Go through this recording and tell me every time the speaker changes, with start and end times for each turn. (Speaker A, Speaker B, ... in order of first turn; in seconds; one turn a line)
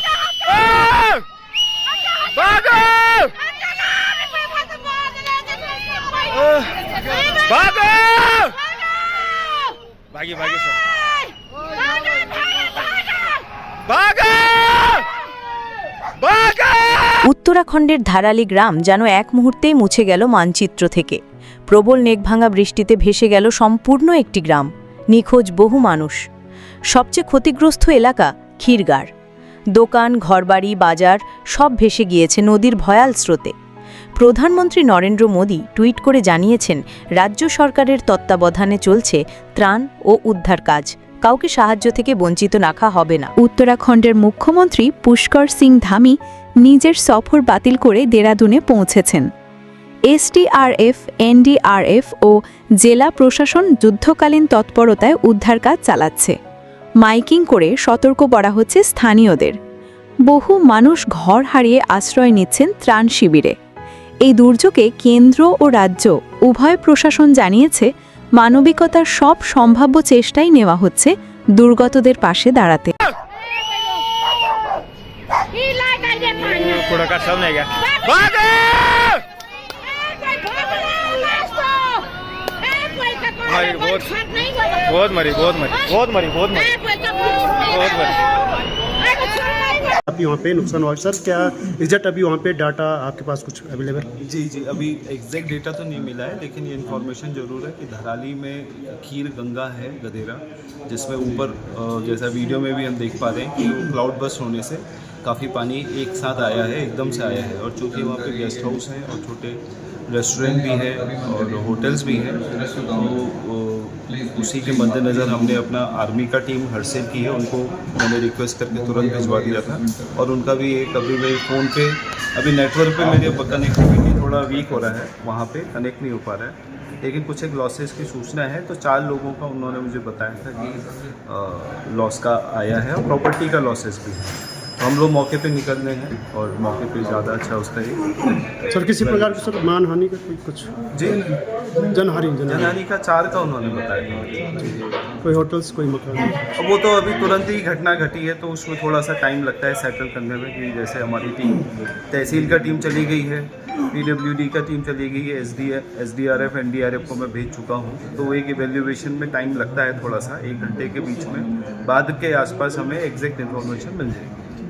Speaker A: 0.5-1.2
Speaker A: 2.4-3.3
Speaker A: 7.5-7.9
Speaker A: 10.1-10.7
Speaker B: 17.2-26.2
Speaker B: 26.9-29.1
Speaker B: 29.8-33.5
Speaker B: 34.2-43.3
Speaker C: 43.4-49.3
Speaker C: 50.1-56.4
Speaker C: 57.0-59.6
Speaker C: 60.3-63.5
Speaker C: 64.2-72.9
Speaker A: 76.1-79.2
Speaker A: 83.5-84.1
Speaker A: 84.8-86.7
Speaker A: 87.7-88.0
Speaker D: 90.1-94.1
Speaker E: 94.2-139.5
Speaker D: 138.7-140.8
Speaker E: 140.9-141.3
Speaker D: 141.8-142.7
Speaker E: 142.5-144.8
Speaker D: 145.2-146.4
Speaker E: 146.6-164.3